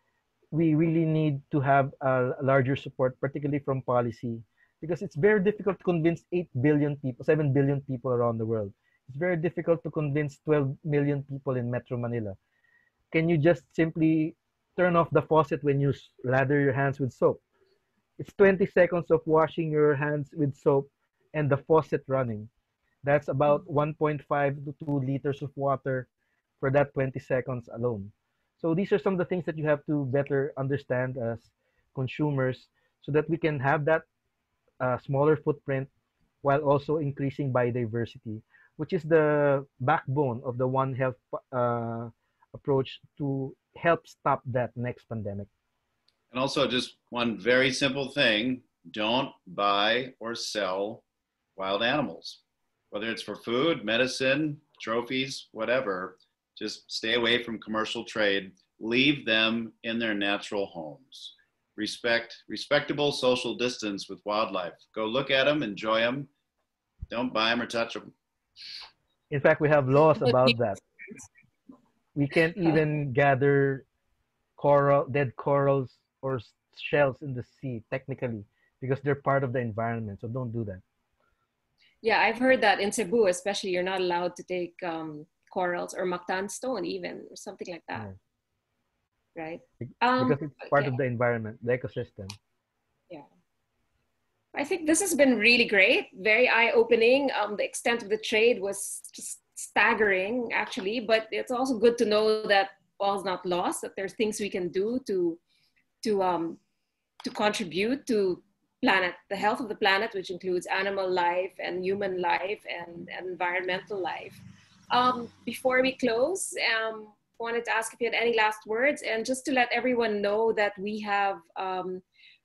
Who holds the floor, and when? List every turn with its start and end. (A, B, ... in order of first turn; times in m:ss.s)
0:00.5-0:12.4 A
0:13.1-0:17.4 A
0:18.2-0:22.5 A
0:23.0-0:26.1 A
0:26.6-0:34.0 A
0:34.8-0:35.9 A
0:36.4-0:45.5 A
0:46.3-0:51.0 B
0:51.6-0:52.4 B
0:52.9-1:06.3 B
1:07.1-1:08.1 B
1:09.3-1:10.8 A
1:12.2-1:13.8 A
1:14.6-1:20.8 A
1:22.0-1:28.1 C
1:29.4-1:31.0 C
1:29.8-1:32.4 A
1:34.5-1:45.4 C
1:46.0-1:46.6 C
1:47.2-2:02.0 C